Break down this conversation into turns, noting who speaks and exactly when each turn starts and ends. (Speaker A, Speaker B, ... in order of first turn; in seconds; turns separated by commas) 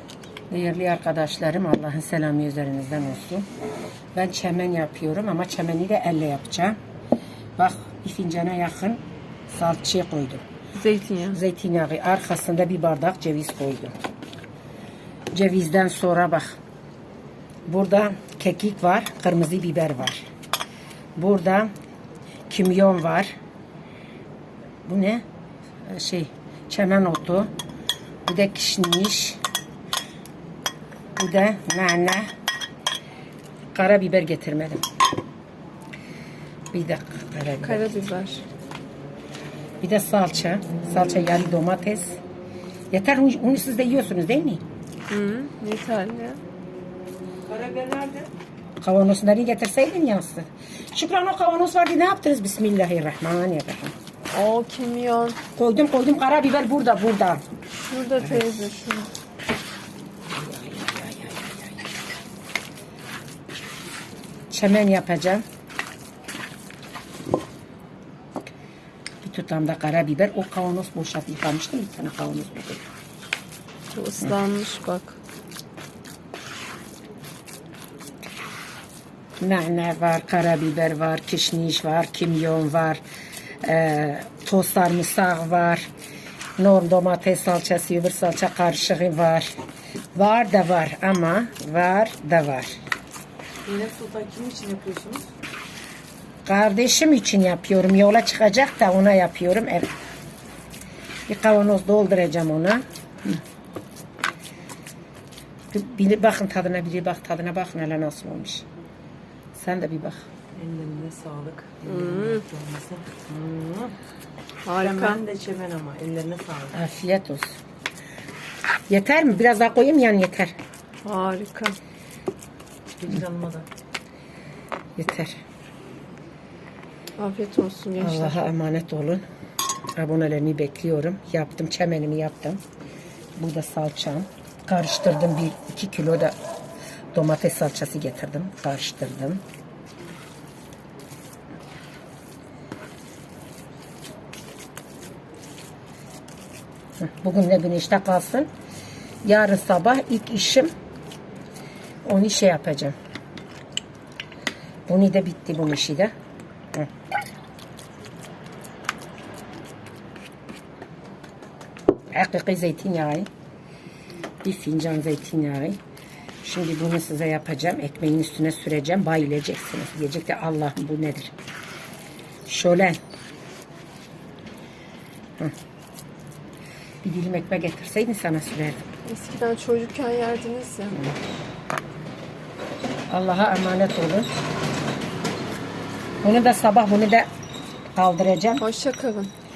Speaker A: 0.5-3.5, Speaker A: 4.2-6.8, Speaker A: 7.6-9.0, Speaker A: 9.5-10.4, Speaker B: 10.8-11.4, Speaker A: 11.3-13.9, Speaker A: 15.3-16.6, Speaker A: 17.7-20.2, Speaker A: 21.2-21.7, Speaker A: 22.5-23.3, Speaker A: 24.9-25.2, Speaker A: 25.9-27.5, Speaker A: 28.3-29.4, Speaker A: 31.2-32.3, Speaker A: 33.7-34.8, Speaker A: 36.7-38.1, Speaker B: 37.6-38.4, Speaker A: 39.8-42.2, Speaker A: 42.9-44.6, Speaker B: 45.1-46.4, Speaker C: 47.5-48.3, Speaker A: 48.8-53.9, Speaker B: 54.3-55.4, Speaker A: 55.5-57.4, Speaker B: 57.9-59.1, Speaker A: 58.2-58.7, Speaker A: 60.3-61.9, Speaker A: 64.5-65.4, Speaker A: 69.2-72.9, Speaker B: 73.9-75.2, Speaker A: 79.4-83.0, Speaker A: 83.6-85.9, Speaker A: 86.6-89.5, Speaker A: 90.1-92.8, Speaker C: 93.7-95.3, Speaker A: 96.5-99.9, Speaker A: 101.3-103.4, Speaker A: 105.7-108.7, Speaker A: 109.5-110.2, Speaker C: 110.6-113.9, Speaker B: 111.8-112.4, Speaker B: 114.7-115.2, Speaker C: 114.7-116.8, Speaker A: 116.7-117.5, Speaker A: 118.9-120.5, Speaker B: 121.0-121.8, Speaker C: 123.0-123.7, Speaker A: 125.0-125.4, Speaker B: 127.2-128.4, Speaker A: 128.0-129.2, Speaker A: 130.0-132.6, Speaker A: 133.4-136.3, Speaker A: 137.1-139.4, Speaker A: 147.0-148.5, Speaker A: 149.2-150.7, Speaker A: 152.1-152.9, Speaker A: 154.9-156.1, Speaker A: 162.1-163.3, Speaker A: 164.4-165.8, Speaker A: 166.4-171.3, Speaker A: 172.5-173.0, Speaker A: 177.0-178.8, Speaker B: 179.1-181.0, Speaker A: 183.1-184.3, Speaker A: 186.2-187.3, Speaker A: 188.0-188.6, Speaker B: 188.6-189.3